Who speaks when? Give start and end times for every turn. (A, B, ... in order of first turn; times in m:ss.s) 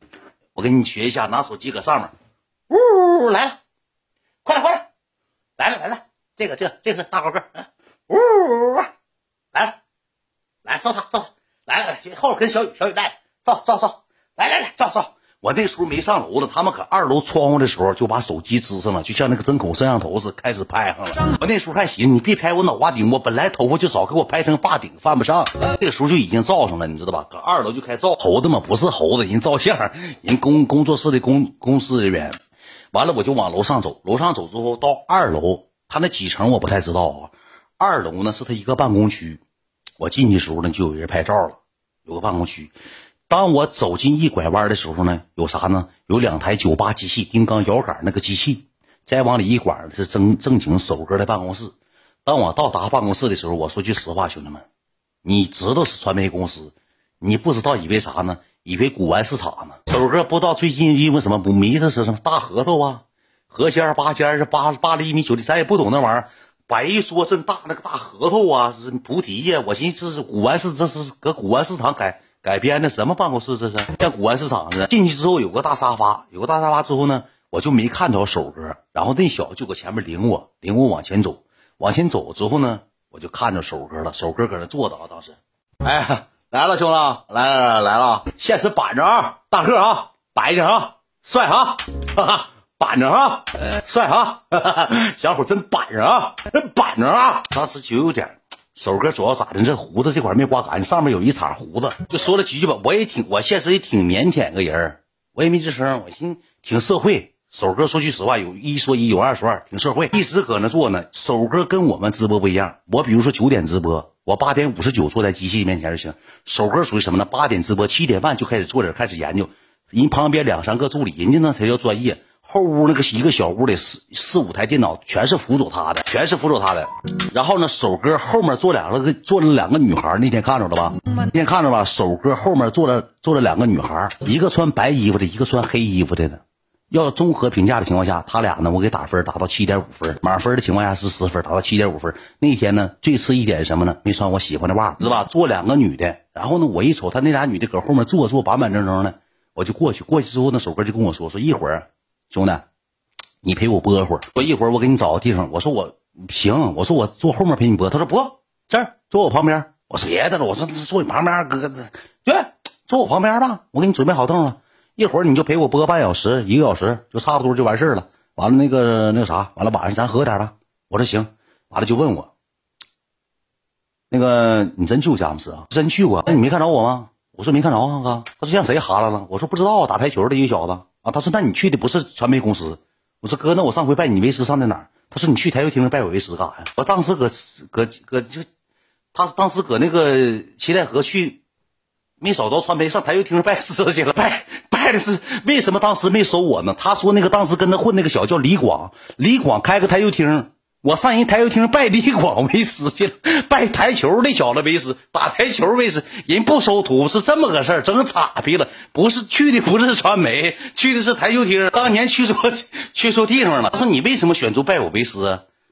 0:00.5-0:02.1 A
0:02.7-0:03.6 A
0:04.4-0:04.9 A
0:05.6-0:08.9 A
0:09.5-0:09.8 A
0:10.6-0:32.4 A
0:32.9-0:39.4 A
0:40.0-0:42.7 A
0:43.3-0:54.6 A
0:55.2-2:32.6 A
2:33.4-2:52.3 A
2:54.1-3:08.5 A
3:09.1-3:11.4 A
3:12.2-3:35.4 A